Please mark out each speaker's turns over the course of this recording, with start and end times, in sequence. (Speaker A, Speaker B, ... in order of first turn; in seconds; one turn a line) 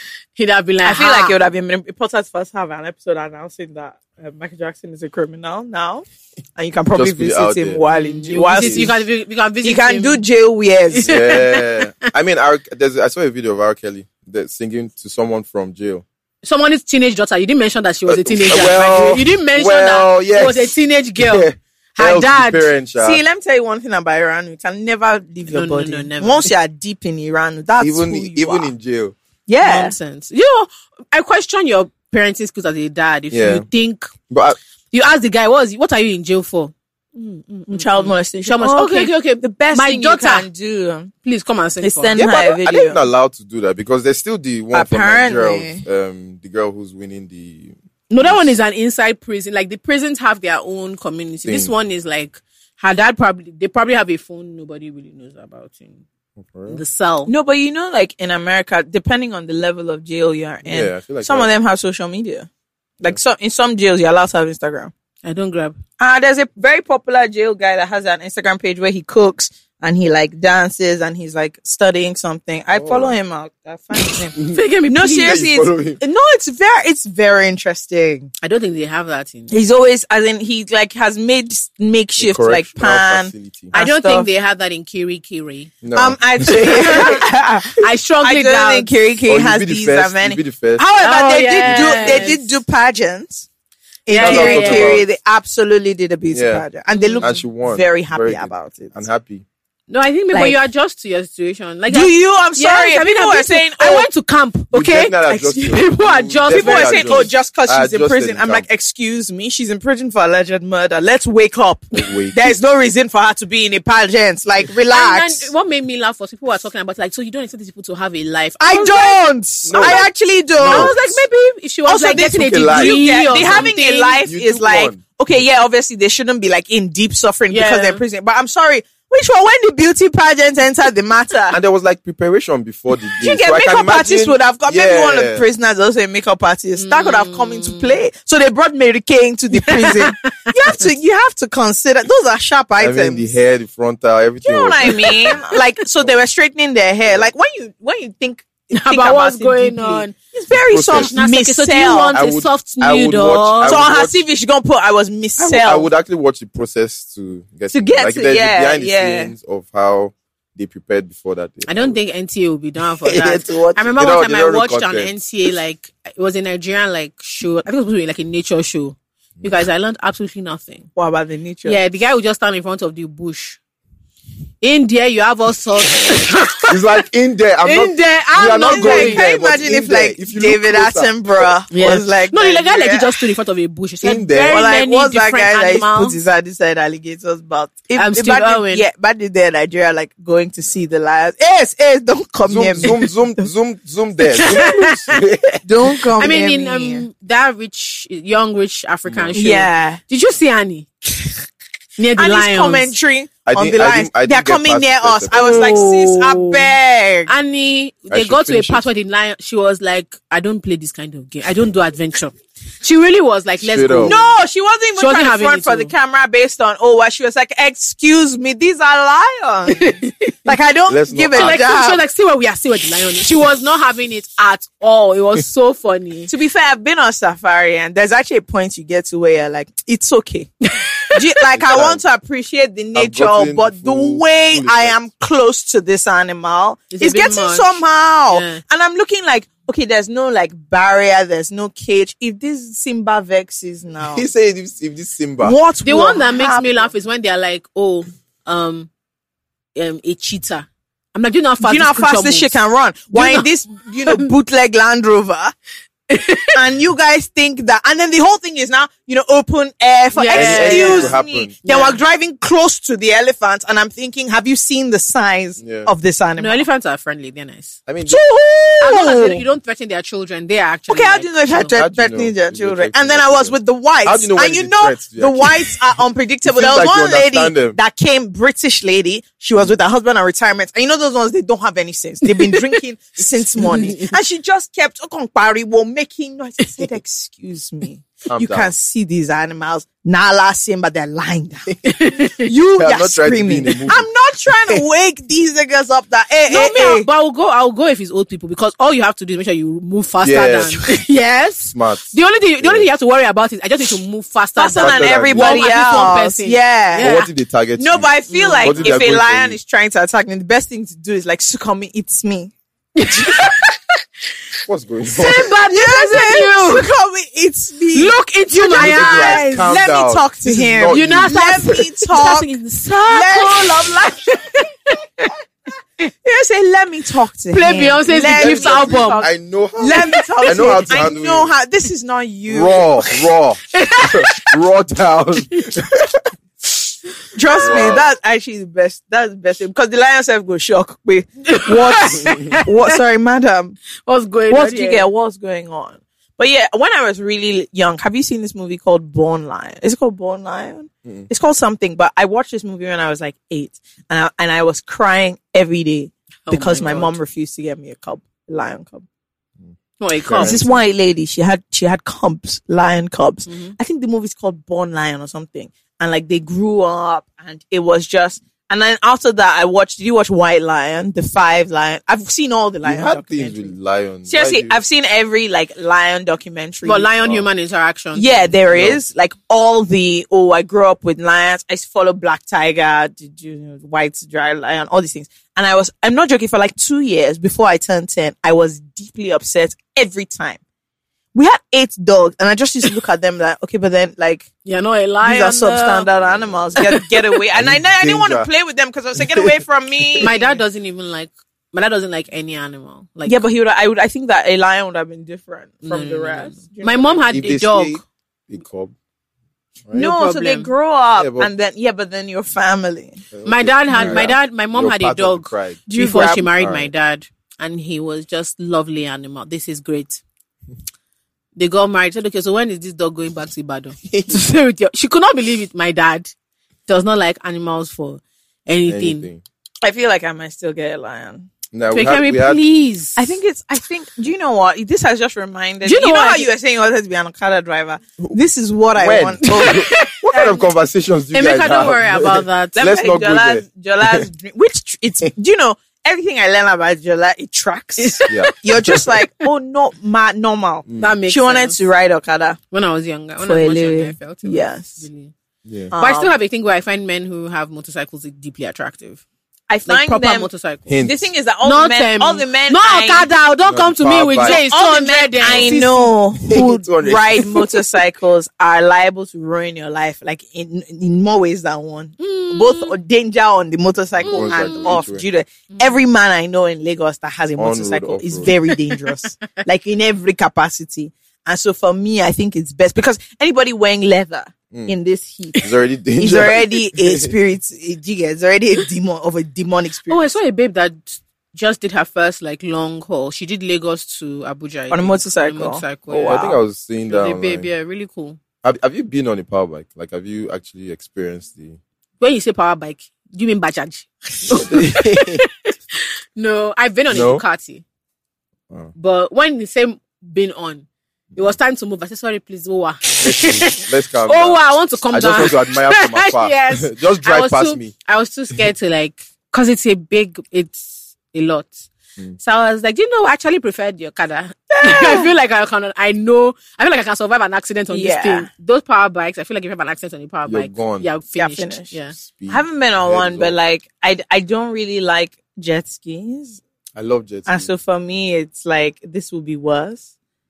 Speaker A: 0.4-1.4
Speaker B: 0.8-6.0
Speaker B: 6.6-9.0
Speaker C: 6.9-8.9
Speaker A: 7.9-10.2
Speaker B: 9.6-11.3
Speaker A: 10.9-11.8
Speaker C: 11.0-16.0
Speaker A: 16.4-22.7
Speaker C: 18.1-23.2
Speaker B: 23.0-28.7
Speaker A: 25.5-26.5
Speaker C: 27.8-29.1
Speaker B: 29.5-30.0
Speaker A: 29.6-34.1
Speaker C: 33.3-33.7
Speaker C: 34.3-34.6
Speaker A: 34.9-40.5
Speaker B: 37.7-41.1
Speaker A: 41.2-42.2
Speaker B: 41.8-43.0
Speaker C: 42.1-48.5
Speaker B: 44.7-45.8
Speaker A: 48.1-56.0
Speaker C: 51.5-51.7
Speaker C: 56.4-56.8
Speaker A: 56.7-57.3
Speaker B: 57.3-62.5
Speaker C: 60.6-61.5
Speaker B: 63.0-64.9
Speaker A: 65.2-65.8
Speaker B: 66.0-74.3
Speaker C: 72.7-73.2
Speaker A: 74.0-75.4
Speaker B: 74.9-78.3
Speaker C: 75.2-76.0
Speaker A: 78.4-79.5
Speaker B: 79.5-84.3
Speaker C: 82.2-83.7
Speaker A: 83.7-85.8
Speaker C: 85.8-87.1
Speaker B: 85.9-93.5
Speaker A: 86.5-87.2
Speaker A: 87.8-88.9
Speaker C: 89.3-90.9
Speaker A: 91.0-92.5
Speaker C: 91.6-92.3
Speaker B: 94.1-99.0
Speaker A: 94.1-95.0
Speaker C: 94.2-95.1
Speaker C: 96.3-96.7
Speaker A: 96.9-97.4
Speaker C: 97.2-99.5
Speaker A: 99.9-107.3
Speaker B: 100.3-100.6
Speaker B: 101.9-104.1
Speaker C: 104.7-108.7
Speaker B: 106.5-115.5
Speaker C: 111.9-112.4
Speaker A: 114.9-120.1
Speaker B: 118.6-121.0
Speaker C: 119.7-120.1
Speaker C: 120.6-121.2
Speaker A: 120.6-124.2
Speaker B: 121.9-131.6
Speaker C: 122.3-123.7
Speaker C: 124.3-125.0
Speaker A: 127.5-128.0
Speaker C: 131.5-135.5
Speaker B: 133.2-143.3
Speaker A: 136.8-138.0
Speaker A: 139.5-140.7
Speaker C: 142.8-145.4
Speaker B: 144.4-152.2
Speaker A: 148.7-150.2
Speaker C: 150.5-151.1
Speaker A: 150.9-153.8
Speaker C: 152.1-154.2
Speaker B: 153.6-155.9
Speaker C: 155.4-162.0
Speaker B: 157.7-159.3
Speaker A: 161.7-170.9
Speaker C: 163.1-163.4
Speaker B: 163.1-163.9
Speaker C: 163.9-165.2
Speaker B: 171.0-171.8
Speaker A: 171.7-173.6
Speaker A: 174.6-176.8
Speaker C: 176.7-181.4
Speaker A: 177.7-179.2
Speaker B: 178.6-183.2
Speaker A: 181.7-186.2
Speaker C: 184.0-184.6
Speaker B: 184.5-193.4
Speaker A: 187.9-188.9
Speaker C: 192.4-195.6
Speaker A: 194.4-195.2
Speaker B: 195.6-197.1
Speaker A: 196.2-201.4
Speaker C: 199.1-199.5
Speaker B: 199.3-200.0
Speaker A: 202.0-202.9
Speaker B: 202.2-207.3
Speaker C: 203.5-205.7
Speaker A: 205.3-206.7
Speaker A: 207.3-214.4
Speaker C: 208.1-208.8
Speaker C: 213.6-214.2
Speaker B: 214.0-222.0
Speaker A: 215.0-215.9
Speaker A: 219.7-220.4
Speaker C: 220.9-221.7
Speaker A: 221.3-226.3
Speaker B: 226.3-230.5
Speaker A: 230.7-231.4
Speaker B: 231.1-244.2
Speaker C: 231.5-232.0
Speaker C: 232.9-235.0
Speaker A: 236.9-237.8
Speaker A: 238.3-238.6
Speaker C: 244.0-245.6
Speaker B: 245.4-246.9
Speaker A: 245.8-248.9
Speaker A: 249.8-252.6
Speaker B: 251.6-255.5
Speaker A: 253.1-253.5
Speaker A: 256.1-256.6
Speaker B: 256.5-266.7
Speaker A: 260.2-262.0
Speaker C: 260.3-261.5
Speaker C: 265.6-265.9
Speaker A: 266.4-267.8
Speaker C: 267.9-268.2
Speaker B: 268.1-269.4
Speaker A: 268.8-271.7
Speaker B: 270.9-297.1
Speaker C: 271.7-275.8
Speaker C: 276.5-277.8
Speaker A: 282.3-282.6
Speaker A: 283.6-284.1
Speaker C: 288.3-288.7
Speaker A: 291.9-292.5
Speaker C: 292.8-294.1
Speaker A: 296.5-307.3
Speaker C: 300.2-301.0
Speaker C: 301.6-302.9
Speaker B: 304.6-307.1
Speaker C: 304.8-306.2
Speaker C: 307.0-308.1
Speaker B: 307.8-312.5
Speaker A: 308.3-309.0
Speaker C: 308.6-309.6
Speaker A: 313.0-313.8
Speaker B: 313.1-313.4
Speaker C: 314.7-315.5
Speaker A: 315.1-316.9
Speaker B: 315.6-322.5
Speaker A: 317.9-319.7
Speaker C: 318.8-321.9
Speaker A: 320.9-325.3
Speaker B: 323.0-324.2
Speaker B: 326.2-333.0
Speaker A: 327.5-329.2
Speaker C: 328.3-331.5
Speaker A: 329.9-331.0
Speaker C: 332.5-336.2
Speaker A: 333.7-334.5
Speaker B: 337.3-343.8
Speaker C: 337.6-338.1
Speaker A: 341.5-342.9
Speaker A: 344.1-345.1
Speaker B: 344.5-359.1
Speaker A: 356.5-357.1
Speaker C: 359.7-360.9
Speaker A: 360.0-360.6
Speaker B: 360.4-373.7
Speaker A: 363.5-363.8
Speaker C: 372.8-374.8
Speaker B: 374.3-377.1
Speaker A: 376.9-378.6
Speaker C: 377.2-377.4
Speaker B: 378.1-390.6
Speaker C: 378.7-379.0
Speaker B: 391.3-394.5
Speaker A: 394.6-396.1
Speaker B: 395.2-400.6
Speaker C: 396.1-396.9
Speaker A: 396.8-397.3
Speaker C: 397.6-398.5
Speaker C: 399.2-399.5
Speaker A: 400.2-403.4
Speaker B: 403.2-407.4
Speaker A: 405.9-408.0
Speaker C: 407.3-408.9
Speaker A: 409.9-410.7
Speaker B: 409.9-413.2
Speaker C: 411.1-411.5
Speaker C: 413.3-415.9
Speaker A: 413.4-420.2
Speaker B: 415.9-416.5
Speaker C: 416.6-416.9
Speaker A: 421.6-426.3
Speaker C: 424.1-424.4
Speaker A: 426.9-429.3
Speaker C: 428.9-429.4
Speaker B: 429.8-431.5
Speaker C: 431.7-432.6
Speaker A: 431.9-433.3
Speaker B: 433.2-439.8
Speaker A: 435.8-436.5
Speaker C: 438.9-444.3
Speaker A: 439.4-440.7
Speaker A: 441.3-442.9
Speaker B: 442.8-452.6
Speaker A: 448.0-449.1
Speaker C: 448.3-449.1
Speaker C: 450.9-451.1
Speaker A: 451.0-451.8
Speaker A: 452.7-455.3
Speaker B: 453.4-455.0
Speaker C: 455.7-455.9
Speaker B: 455.9-456.4
Speaker A: 455.9-459.2
Speaker B: 459.7-460.5
Speaker A: 459.9-461.1
Speaker C: 460.9-461.3
Speaker B: 461.0-463.3
Speaker A: 461.6-466.2
Speaker C: 463.6-464.6
Speaker B: 464.4-490.4
Speaker C: 465.4-465.8
Speaker C: 466.4-467.7
Speaker A: 472.2-473.0
Speaker C: 474.1-475.2
Speaker A: 474.3-474.9
Speaker A: 475.7-476.0
Speaker C: 477.6-478.5
Speaker C: 485.6-487.3
Speaker A: 490.1-496.5
Speaker B: 494.9-496.6
Speaker C: 496.1-497.7
Speaker A: 497.1-498.4
Speaker C: 498.6-501.8
Speaker A: 502.2-507.8
Speaker C: 504.5-505.4
Speaker C: 507.1-507.4
Speaker A: 508.9-521.8
Speaker C: 513.2-517.9
Speaker A: 522.4-532.2
Speaker B: 524.7-525.3
Speaker B: 527.9-528.5
Speaker C: 530.5-531.1
Speaker B: 531.3-531.9
Speaker C: 532.2-533.5
Speaker B: 532.5-536.6
Speaker C: 537.0-537.7
Speaker B: 537.5-540.1